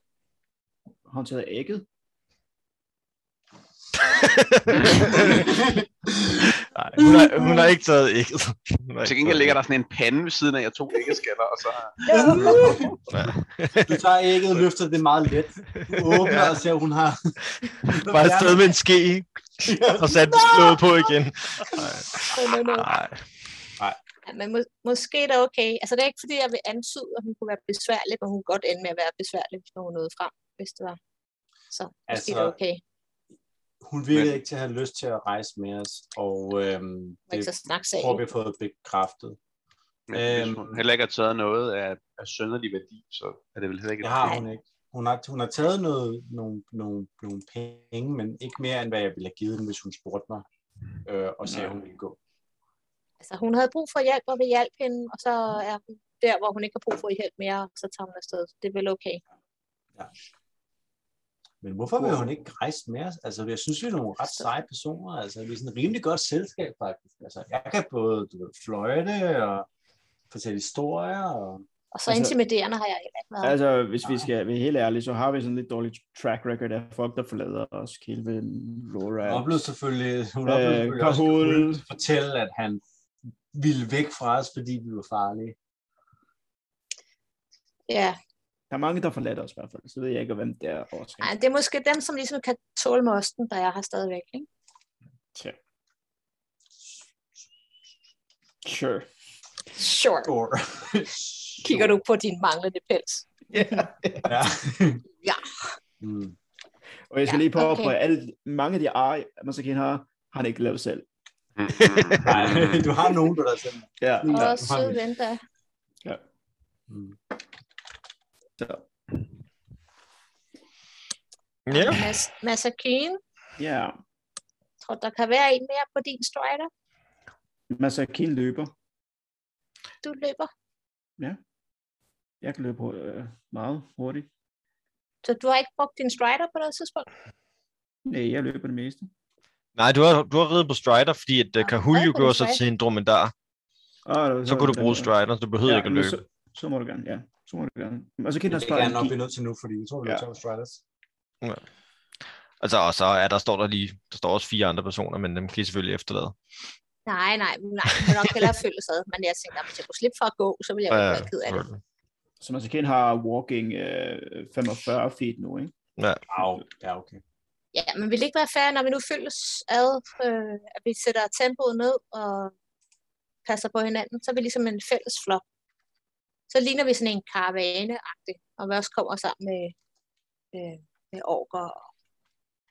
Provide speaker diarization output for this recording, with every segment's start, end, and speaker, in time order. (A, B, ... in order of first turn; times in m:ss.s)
0:01.1-0:01.8 A
0:04.0-0:05.5 B
0:04.9-0:06.5 C
0:06.6-0:09.6 B
0:07.1-0:07.6 D
0:09.0-0:12.6 E
0:12.1-0:12.8 D
0:12.1-0:13.0 C
0:13.1-0:14.0 B
0:13.8-0:18.8 C
0:15.8-0:16.5 B
0:17.7-0:23.3 B
0:19.6-0:21.0 C
0:22.3-0:23.0 D
0:24.2-0:31.0 D
0:31.7-0:32.8 D
0:32.1-0:32.6 C
0:33.8-0:39.4 C
0:37.3-0:38.3 D
0:40.1-0:44.4 E
0:40.1-0:40.8 C
0:44.0-0:50.4 C
0:51.0-0:52.2 C
0:53.2-0:59.2 D
1:01.6-1:09.7 C
1:02.0-1:02.3 A
1:10.3-1:11.6 C
1:11.9-1:13.6 D
1:12.1-1:12.4 A
1:13.4-1:19.6 A
1:19.2-1:22.8 C
1:20.4-1:21.8 A
1:23.5-1:25.6 C
1:27.9-1:28.2 D
1:28.7-1:31.3 A
1:31.2-1:34.5 D
1:38.6-1:39.1 A
1:39.8-1:40.3 D
1:40.2-1:42.0 C
1:41.6-1:43.3 D
1:43.5-1:44.3 A
1:44.2-1:45.0 C
1:45.2-1:45.8 D
1:46.0-1:46.4 C
1:47.1-1:51.0 A
1:47.3-1:47.9 D
1:51.6-1:52.9 E
1:52.2-1:55.0 C
1:54.0-1:54.6 A
1:54.3-1:55.4 D
1:56.9-1:57.2 C
1:58.6-1:58.9 A
2:01.7-2:02.1 B
2:01.7-2:03.2 D
2:03.6-2:04.0 A
2:04.8-2:06.7 D
2:07.7-2:08.7 A
2:10.0-2:10.5 D
2:12.4-2:14.3 A
2:15.2-2:17.1 D
2:18.1-2:19.1 A
2:19.8-2:23.3 B
2:21.6-2:22.6 D
2:24.1-2:25.1 A
2:24.5-2:26.2 B
2:25.6-2:29.2 A
2:28.5-2:30.8 C
2:32.6-2:36.4 B
2:37.1-2:41.6 D
2:40.9-2:41.8 B
2:42.4-2:45.7 A
2:46.0-2:46.2 B
2:46.3-2:47.2 C
2:47.7-2:52.5 D
2:53.5-2:55.4 D
2:56.5-2:59.7 D
3:00.5-3:01.9 D